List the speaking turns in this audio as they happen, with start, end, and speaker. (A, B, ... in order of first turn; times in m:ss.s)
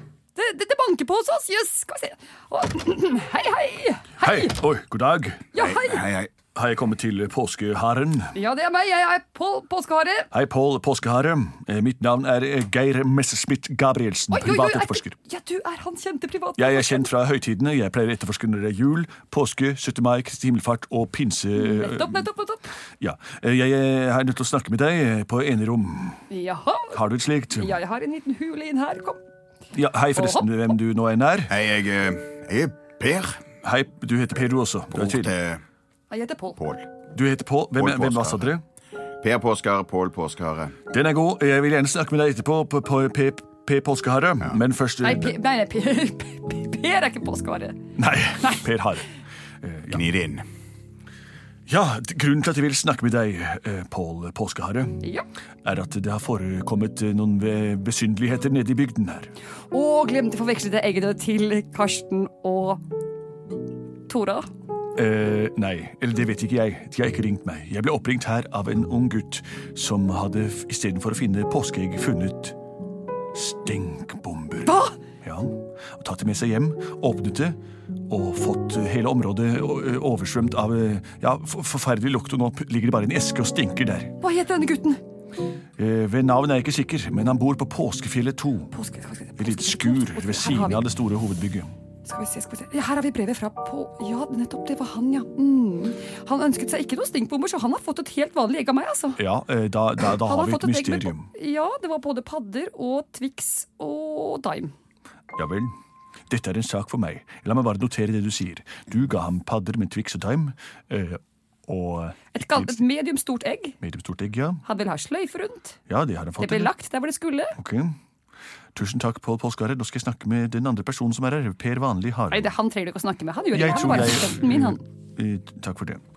0:00.3-0:04.5 A
0:04.2-0:05.5 B
0:05.5-0:06.0 A
0:05.6-0:06.3 C
0:06.5-0:08.3 B
0:08.3-0:10.3 A
0:10.3-0:15.1 B
0:14.3-0:17.1 A
0:16.6-0:22.2 B
0:21.6-0:22.7 A
0:23.0-0:26.2 B
0:26.3-0:27.0 A
0:26.9-0:27.8 B
0:27.5-0:29.2 A
0:29.7-0:31.5 B
0:30.2-0:30.6 A
0:31.5-0:33.4 C
0:33.6-0:35.3 B
0:34.9-0:35.6 C
0:36.1-0:36.6 A
0:36.6-0:36.9 C
0:37.1-0:38.6 B
0:37.8-0:38.5 C
0:39.2-0:40.8 C
0:40.9-0:45.3 B
0:45.0-0:47.8 A
0:48.0-0:49.0 B
0:49.6-0:50.0 B
0:49.9-0:50.4 C
0:51.7-0:55.0 B
0:55.6-0:59.3 B
0:59.7-1:02.8 A
1:04.1-1:04.5 A
1:05.0-1:12.6 B
1:13.3-1:24.1 B
1:14.6-1:15.0 A
1:24.2-1:25.0 A
1:25.8-1:28.7 B
1:28.7-1:30.8 A
1:29.4-1:31.7 B
1:32.0-1:39.2 A
1:39.2-1:41.3 B
1:40.2-1:44.7 A
1:45.4-1:45.7 B
1:46.3-1:52.8 B
1:52.3-1:53.8 A
1:53.8-1:54.6 B
1:54.6-1:55.8 A
1:55.9-1:56.7 B
1:56.4-1:57.5 A
1:57.6-1:58.0 B
1:58.7-2:02.5 B
2:02.3-2:04.8 A
2:03.5-2:06.0 B